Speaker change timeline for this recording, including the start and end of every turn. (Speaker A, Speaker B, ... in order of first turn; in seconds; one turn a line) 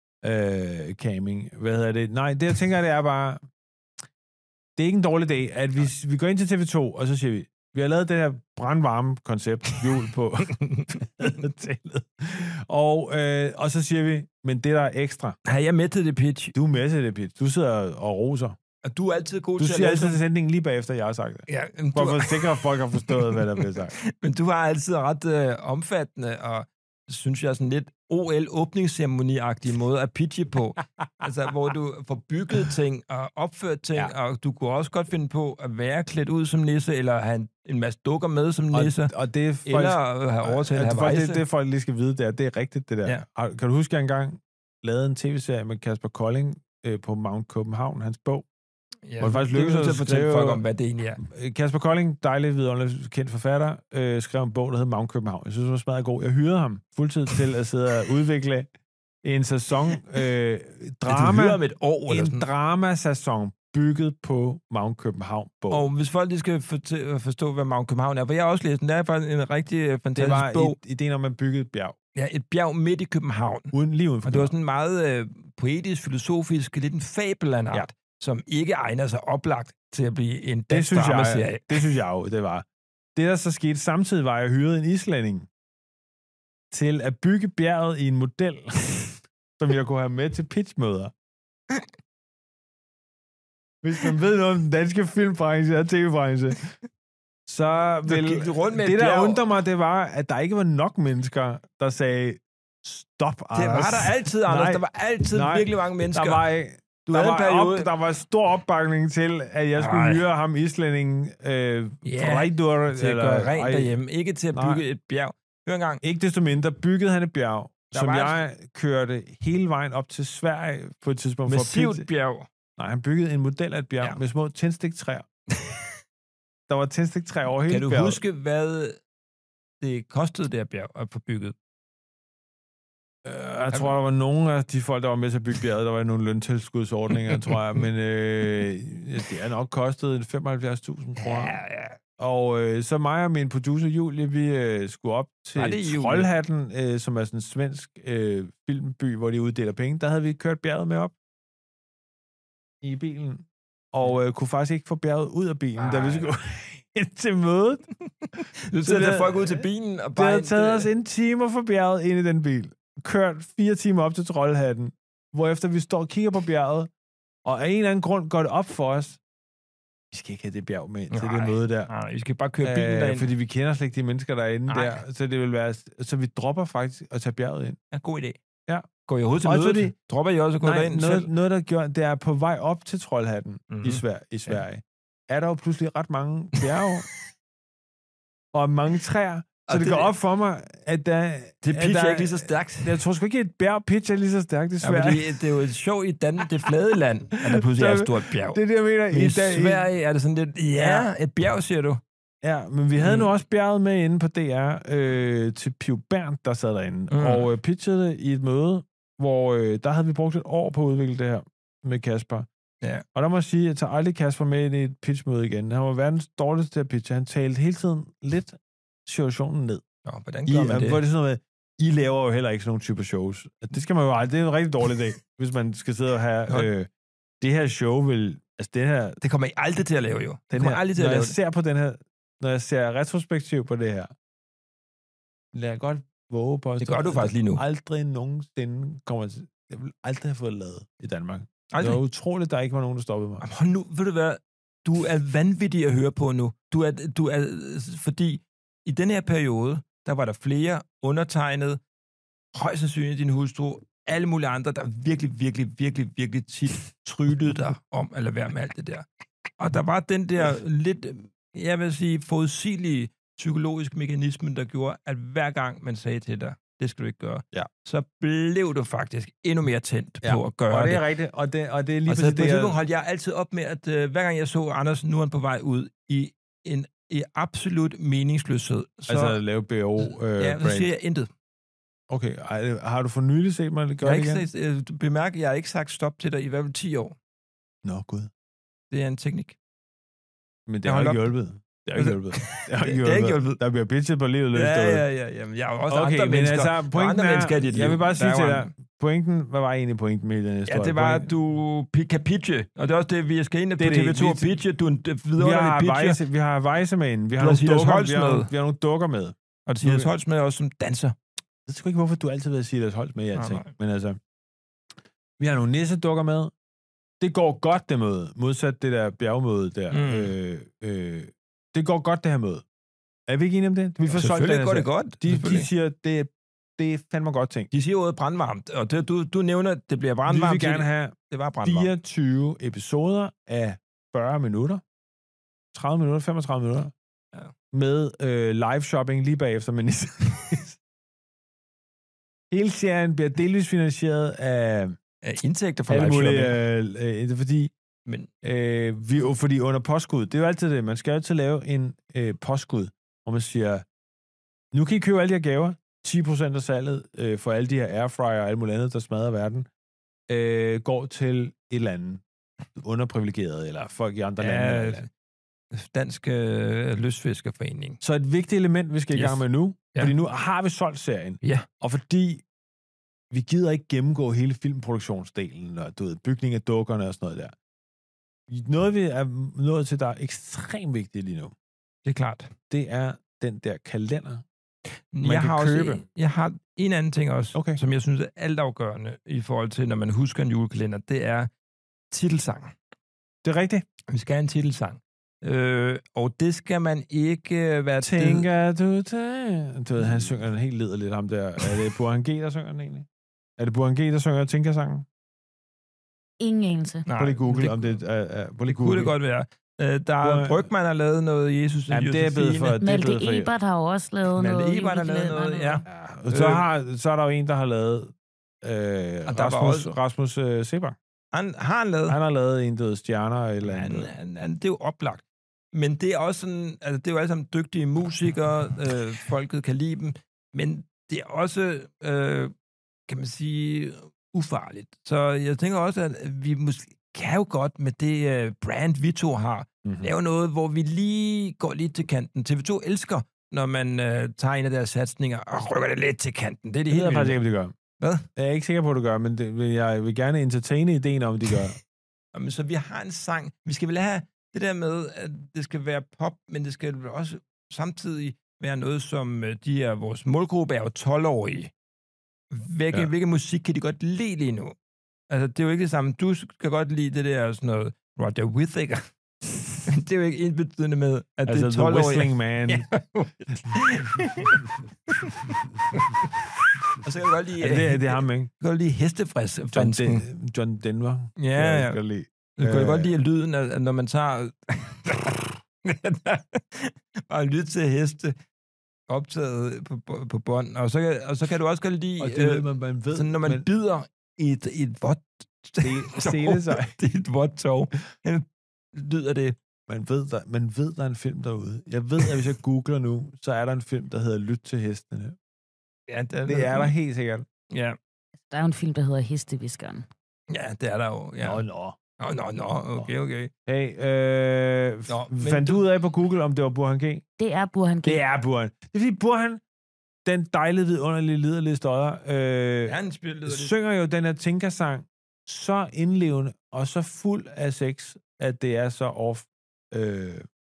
Speaker A: 0.2-3.4
Speaker A: 4.8-15.4
Speaker B: 10.5-10.9
Speaker B: 15.4-16.5
Speaker A: 16.5-18.6
Speaker B: 18.8-20.2
Speaker A: 19.6-23.9
Speaker B: 21.5-39.1
Speaker A: 38.7-48.5
Speaker B: 39.6-41.4
Speaker B: 49.1-51.2
Speaker A: 49.2-50.6
Speaker A: 51.2-58.7
Speaker A: 59.2-65.9
Speaker B: 61.1-62.4
Speaker B: 65.7-70.8
Speaker A: 70.1-72.0
Speaker B: 72.1-73.7
Speaker A: 73.7-74.5
Speaker B: 74.2-82.0
Speaker A: 80.7-82.6
Speaker A: 83.2-85.5
Speaker A: 86.7-91.1
Speaker A: 93.8-96.8
Speaker A: 97.5-113.9
Speaker B: 98.1-99.4
Speaker B: 103.5-106.4
Speaker B: 107.1-107.9
Speaker B: 109.8-110.2
Speaker B: 112.0-116.0
Speaker A: 114.5-114.8
Speaker A: 116.0-122.0
Speaker B: 117.9-118.4
Speaker B: 121.5-122.5
Speaker A: 122.8-125.3
Speaker B: 125.5-126.0
Speaker A: 126.7-128.2
Speaker B: 127.7-129.0
Speaker B: 129.8-131.5
Speaker A: 133.2-141.5
Speaker B: 141.2-142.0
Speaker A: 142.2-151.1
Speaker B: 145.6-146.3
Speaker A: 152.8-157.9
Speaker B: 155.8-156.3
Speaker B: 158.7-160.9
Speaker A: 158.8-166.9
Speaker A: 167.4-169.2
Speaker A: 170.1-171.9
Speaker B: 171.1-173.3
Speaker A: 172.6-177.8
Speaker B: 174.7-175.0
Speaker B: 177.9-178.4
Speaker B: 179.1-181.3
Speaker A: 179.4-179.9
Speaker A: 180.6-187.1
Speaker B: 183.7-184.6
Speaker A: 188.5-195.4
Speaker B: 189.7-190.1
Speaker B: 191.6-193.0
Speaker B: 194.8-198.6
Speaker A: 197.4-199.8
Speaker B: 199.1-202.0
Speaker A: 200.7-201.1
Speaker A: 202.4-212.5
Speaker B: 203.0-203.3
Speaker B: 207.1-207.5
Speaker A: 213.1-219.8
Speaker B: 220.0-221.0
Speaker A: 220.4-226.9
Speaker A: 227.4-229.2
Speaker B: 229.2-231.3
Speaker A: 230.5-234.1
Speaker A: 235.5-243.4
Speaker B: 236.8-237.6
Speaker B: 241.7-242.0
Speaker B: 243.4-251.8
Speaker B: 252.5-259.1
Speaker B: 259.6-271.0
Speaker A: 270.2-272.8
Speaker B: 272.1-279.4
Speaker A: 279.1-280.9
Speaker B: 280.0-281.3
Speaker A: 282.1-284.4
Speaker B: 284.0-287.2
Speaker A: 287.8-288.3
Speaker B: 288.9-289.6
Speaker A: 290.7-295.0
Speaker B: 290.8-291.3
Speaker B: 292.0-293.6
Speaker B: 294.5-298.7
Speaker A: 295.9-301.3
Speaker B: 300.6-306.2
Speaker A: 303.8-304.6
Speaker A: 305.4-310.1
Speaker B: 307.4-308.5
Speaker B: 309.6-311.1
Speaker A: 311.7-314.2
Speaker B: 313.3-313.7
Speaker A: 315.4-316.5
Speaker A: 317.2-322.6
Speaker B: 319.9-320.3
Speaker A: 323.3-327.7
Speaker B: 324.1-325.7
Speaker B: 327.7-331.9
Speaker A: 330.3-334.8
Speaker A: 335.7-336.9
Speaker A: 337.7-340.8
Speaker A: 342.5-345.0
Speaker B: 345.2-346.6
Speaker A: 345.9-347.7
Speaker A: 348.4-353.8
Speaker A: 354.7-359.7
Speaker A: 360.3-362.2
Speaker A: 362.8-365.1
Speaker B: 364.4-365.1
Speaker B: 365.7-368.0
Speaker A: 368.0-372.4
Speaker B: 369.1-369.4
Speaker B: 371.4-371.7
Speaker A: 373.3-377.5
Speaker A: 378.5-381.5
Speaker B: 382.0-382.5
Speaker A: 382.7-384.4
Speaker B: 385.1-391.5
Speaker A: 385.2-386.0
Speaker A: 387.5-387.8
Speaker B: 392.1-392.7
Speaker A: 393.4-393.8
Speaker B: 394.1-398.5
Speaker A: 398.0-403.1
Speaker A: 403.6-405.1
Speaker C: 406.4-407.1
Speaker B: 407.1-408.0
Speaker A: 407.2-409.1
Speaker B: 408.7-412.8
Speaker A: 410.2-410.6
Speaker A: 411.9-413.5
Speaker C: 412.8-415.8
Speaker B: 414.3-416.6
Speaker A: 415.9-420.9
Speaker B: 419.3-419.9
Speaker B: 421.3-422.1
Speaker A: 422.1-424.1
Speaker B: 423.6-432.5
Speaker B: 433.1-447.4
Speaker A: 439.8-440.1
Speaker A: 446.9-447.7
Speaker B: 448.0-448.2
Speaker A: 448.4-451.8
Speaker B: 452.3-461.7
Speaker B: 462.5-464.8
Speaker B: 465.3-469.1
Speaker B: 469.9-480.2
Speaker A: 471.4-472.9
Speaker A: 477.6-478.5
Speaker A: 479.7-483.1
Speaker B: 481.4-482.0
Speaker B: 482.6-488.4
Speaker B: 489.1-499.6
Speaker A: 492.2-493.6
Speaker A: 495.8-496.9
Speaker A: 499.9-505.4
Speaker B: 506.1-506.9
Speaker A: 506.4-507.4
Speaker B: 507.7-508.0
Speaker C: 508.5-510.0
Speaker B: 510.5-511.6
Speaker A: 511.4-512.0
Speaker B: 512.2-513.5
Speaker A: 513.6-517.2
Speaker B: 515.1-515.8
Speaker C: 517.4-518.2
Speaker A: 518.0-519.6
Speaker A: 520.2-530.5
Speaker B: 522.9-523.7